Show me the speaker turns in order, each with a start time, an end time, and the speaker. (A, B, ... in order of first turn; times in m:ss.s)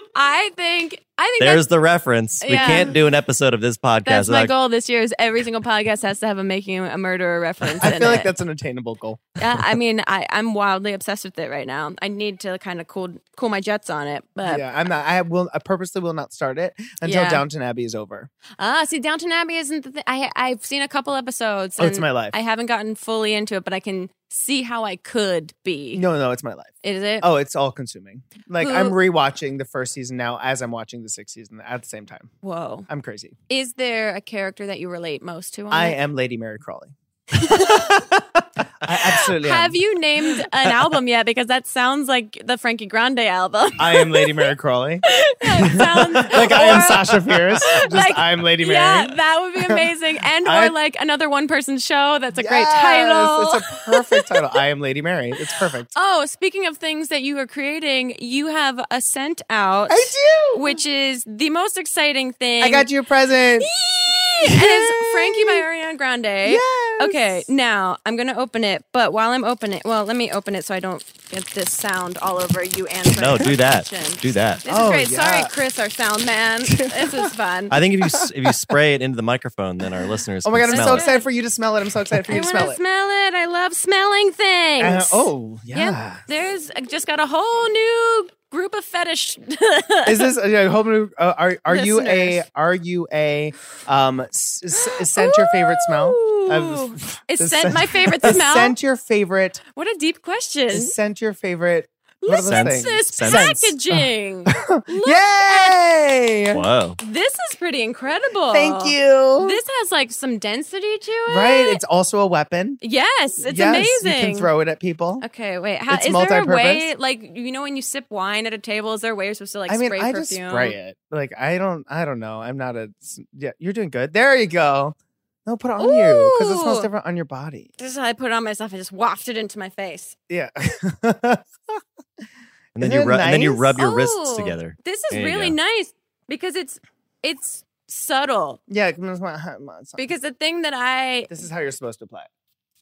0:00.1-0:01.6 A
0:01.4-0:04.5 B
0:02.4-0:02.9 A
0:04.0-0:08.3 A
0:07.8-0:09.4 C
0:09.4-0:14.6 A
0:14.4-0:18.3 C
0:17.0-0:17.4 A
0:18.6-0:26.0 A
0:21.8-0:22.3 C
0:25.9-0:32.3 C
0:26.8-0:27.2 A
0:28.6-0:29.0 A
0:32.4-0:32.9 A
0:32.9-0:33.4 C
0:33.5-0:36.0 A
0:35.7-0:39.8 C
0:37.3-0:38.0 A
0:38.9-0:44.4 A
0:43.8-0:49.9 C
0:45.0-0:54.4 A
0:46.2-0:47.2 B
0:50.4-0:50.7 C
0:52.3-0:55.9 C
0:55.9-1:02.9 A
0:59.9-1:00.8 C
1:02.6-1:05.6 C
1:03.7-1:17.8 A
1:06.4-1:07.4 C
1:13.1-1:14.6 B
1:14.6-1:15.5 C
1:16.7-1:17.3 C
1:17.7-1:21.0 B
1:18.0-1:18.7 C
1:20.4-1:22.8 C
1:20.7-1:21.3 A
1:22.3-1:30.3 A
1:24.8-1:26.2 C
1:30.0-1:39.6 C
1:31.7-1:32.4 A
1:34.8-1:38.8 A
1:39.7-1:40.9 A
1:40.7-1:46.6 C
1:42.2-1:45.8 A
1:42.4-1:43.6 B
1:46.5-1:47.0 B
1:47.0-1:51.8 A
1:48.5-1:49.6 C
1:51.3-1:52.8 C
1:52.8-1:54.5 A
1:53.4-1:55.2 C
1:55.2-2:00.8 A
1:55.9-1:56.9 C
1:59.7-2:07.7 C
2:05.8-2:06.9 A
2:07.8-2:10.1 A
2:10.3-2:11.8 C
2:12.7-2:13.7 C
2:12.8-2:15.6 B
2:13.7-2:18.6 A
2:18.7-2:20.0 C
2:20.0-2:21.3 A
2:21.3-2:22.3 C